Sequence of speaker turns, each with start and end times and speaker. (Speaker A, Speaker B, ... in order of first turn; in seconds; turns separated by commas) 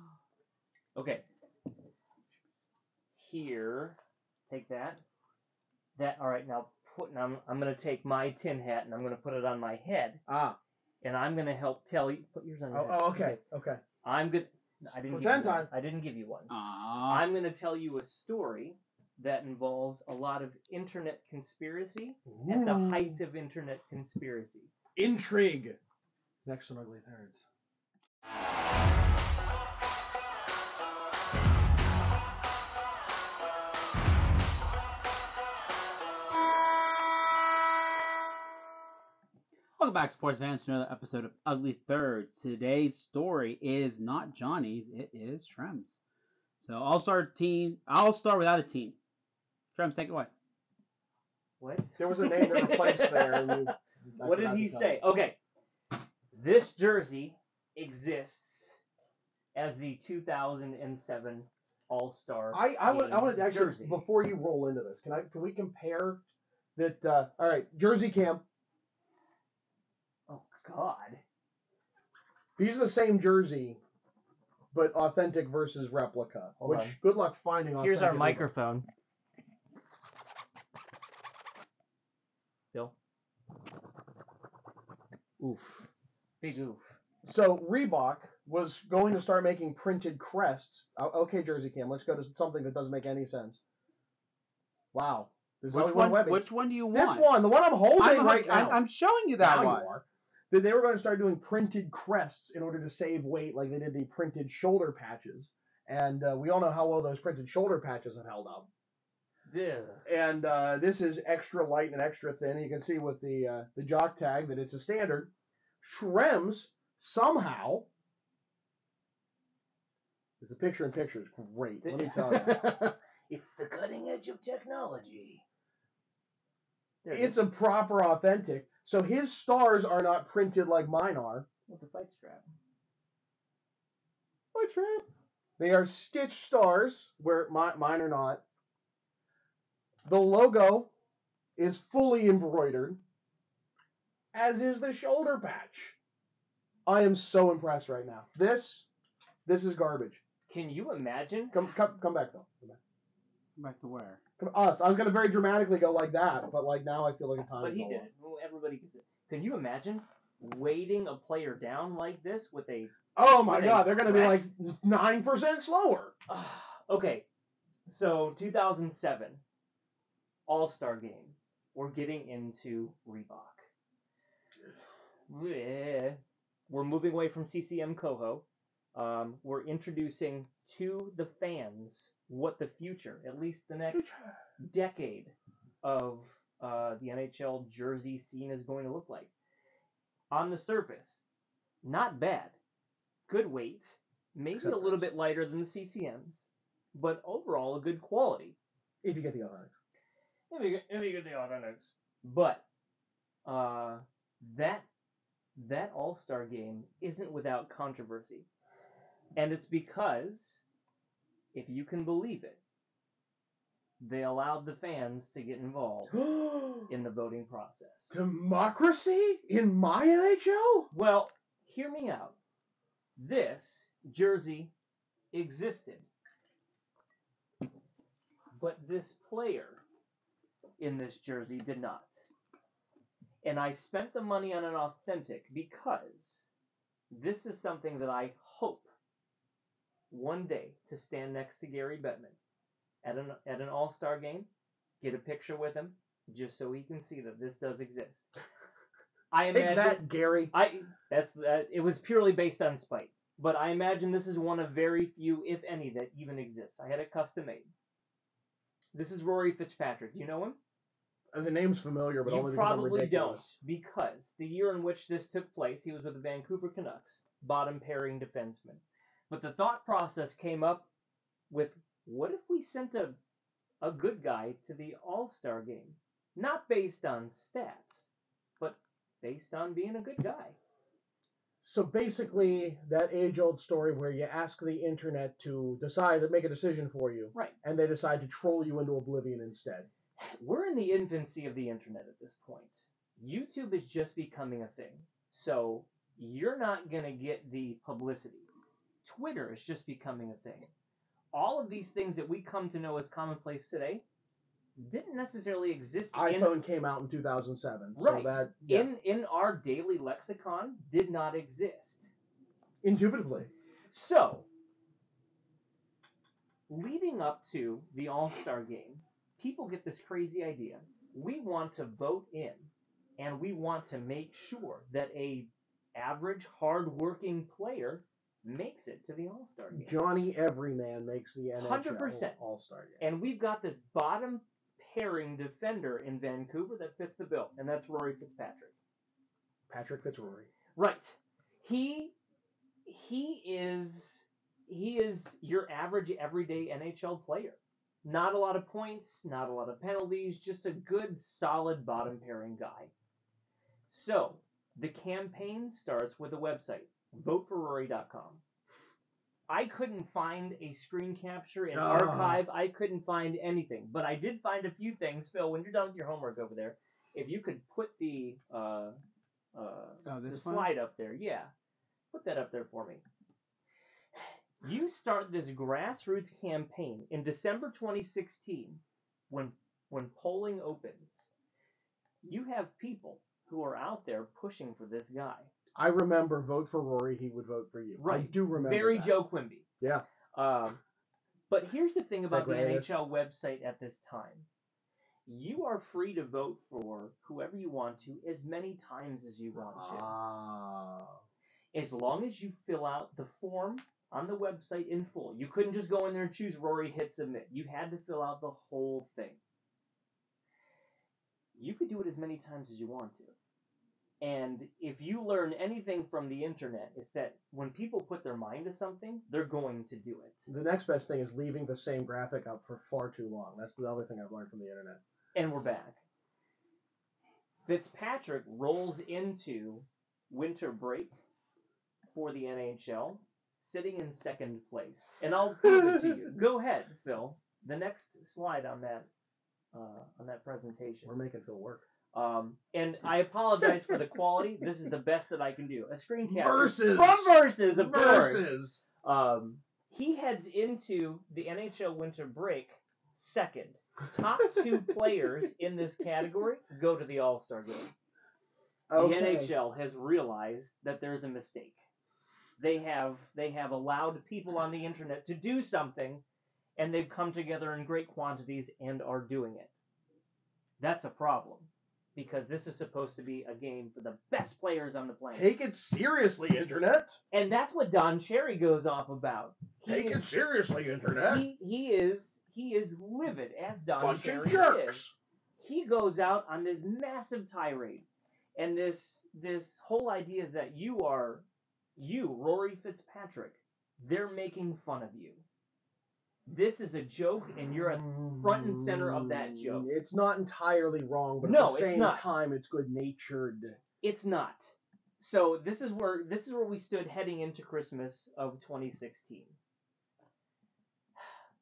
Speaker A: 0.9-1.2, Speaker A: 3.1-5.0, Speaker A: 6.0-10.2, Speaker B: 10.3-10.6, Speaker A: 11.0-13.4, Speaker B: 12.7-13.8, Speaker A: 14.0-16.5, Speaker B: 14.9-15.7, Speaker C: 16.5-17.3, Speaker A: 17.1-24.7, Speaker B: 22.3-23.2, Speaker B: 25.0-25.8, Speaker B: 26.4-27.4, Speaker C: 39.8-46.0, Speaker C: 46.6-49.0, Speaker C: 49.7-50.3, Speaker A: 51.6-53.5, Speaker B: 52.0-55.0, Speaker A: 54.2-55.4, Speaker A: 56.3-58.8, Speaker A: 59.5-64.0, Speaker B: 62.5-66.2, Speaker B: 66.8-68.4, Speaker A: 70.3-71.2, Speaker B: 72.6-73.8, Speaker B: 74.7-78.5, Speaker A: 76.6-77.0, Speaker A: 77.8-78.9, Speaker A: 85.4-85.9, Speaker A: 86.4-87.0, Speaker B: 87.2-93.6, Speaker B: 94.9-98.8, Speaker C: 95.7-99.9, Speaker B: 99.4-108.7, Speaker A: 109.5-110.0, Speaker B: 110.1-115.3, Speaker B: 115.8-117.9, Speaker B: 120.4-122.7, Speaker A: 121.8-125.4, Speaker A: 127.0-127.5, Speaker B: 127.1-131.5, Speaker A: 131.7-132.5, Speaker B: 134.5-135.1, Speaker B: 135.6-138.4, Speaker B: 140.1-140.9, Speaker B: 141.6-143.0, Speaker B: 144.3-146.0, Speaker B: 146.9-148.9, Speaker B: 149.4-150.2, Speaker A: 150.5-151.6, Speaker B: 151.5-152.8, Speaker C: 153.6-154.2, Speaker B: 154.4-158.1, Speaker A: 157.6-164.5, Speaker B: 163.2-166.2, Speaker A: 166.3-167.3, Speaker A: 167.9-169.4, Speaker A: 170.5-173.7, Speaker A: 175.3-189.3, Speaker B: 183.9-184.3, Speaker A: 190.3-191.3, Speaker A: 191.8-192.6, Speaker A: 193.3-198.6, Speaker B: 194.5-195.0, Speaker B: 199.0-199.7, Speaker A: 200.5-202.7, Speaker A: 203.5-204.9, Speaker A: 205.6-208.5, Speaker A: 209.3-210.7, Speaker A: 211.5-212.6, Speaker A: 214.0-216.2, Speaker B: 216.1-216.9, Speaker A: 216.9-218.2, Speaker B: 218.1-220.9, Speaker A: 220.9-222.4, Speaker A: 223.2-224.7, Speaker A: 225.3-226.1, Speaker A: 228.6-229.8, Speaker A: 230.8-232.3, Speaker A: 233.4-236.5, Speaker A: 237.1-238.9, Speaker A: 240.1-242.4, Speaker A: 243.0-244.5, Speaker A: 245.0-248.3, Speaker A: 249.3-257.7, Speaker B: 249.5-250.5, Speaker A: 258.9-260.6, Speaker B: 261.3-263.5, Speaker A: 262.2-270.9, Speaker A: 271.5-273.2, Speaker A: 273.8-280.6, Speaker B: 281.6-289.9, Speaker A: 290.2-298.5, Speaker A: 299.0-300.7, Speaker A: 301.3-304.0, Speaker A: 304.8-306.6, Speaker B: 306.1-308.9, Speaker A: 308.0-312.1, Speaker B: 312.8-313.5, Speaker A: 313.9-314.5, Speaker A: 316.7-329.9, Speaker B: 329.7-333.0, Speaker A: 331.6-332.4, Speaker A: 333.0-338.8, Speaker B: 339.7-340.5, Speaker A: 340.8-342.2, Speaker A: 342.9-352.9, Speaker A: 353.9-358.4, Speaker A: 359.5-369.0, Speaker B: 361.7-362.4, Speaker A: 369.6-371.5, Speaker C: 370.1-370.7, Speaker A: 372.1-373.0, Speaker A: 374.6-381.3, Speaker A: 382.2-385.5, Speaker B: 385.8-389.2, Speaker A: 388.0-389.7, Speaker B: 389.8-390.1, Speaker A: 390.3-390.8, Speaker A: 391.5-394.5, Speaker B: 392.3-392.9, Speaker A: 395.3-400.1, Speaker B: 399.7-401.2, Speaker A: 401.7-409.4, Speaker A: 411.6-413.4, Speaker A: 414.2-420.5, Speaker B: 420.5-425.0, Speaker A: 425.4-426.0, Speaker A: 427.7-431.1, Speaker A: 432.1-439.1, Speaker B: 435.7-436.1, Speaker A: 439.7-441.1, Speaker B: 441.1-441.8, Speaker A: 442.1-457.9, Speaker B: 446.2-448.8, Speaker B: 458.9-459.5, Speaker A: 459.0-461.8, Speaker A: 462.6-466.2, Speaker A: 466.8-469.8, Speaker A: 470.8-475.5, Speaker B: 475.3-477.2, Speaker A: 477.3-480.4, Speaker B: 479.9-481.5, Speaker A: 481.1-485.1, Speaker B: 484.0-485.1, Speaker A: 485.6-491.4, Speaker A: 492.0-495.4, Speaker A: 496.5-499.9, Speaker B: 498.0-503.8, Speaker A: 501.4-502.3, Speaker A: 504.0-509.6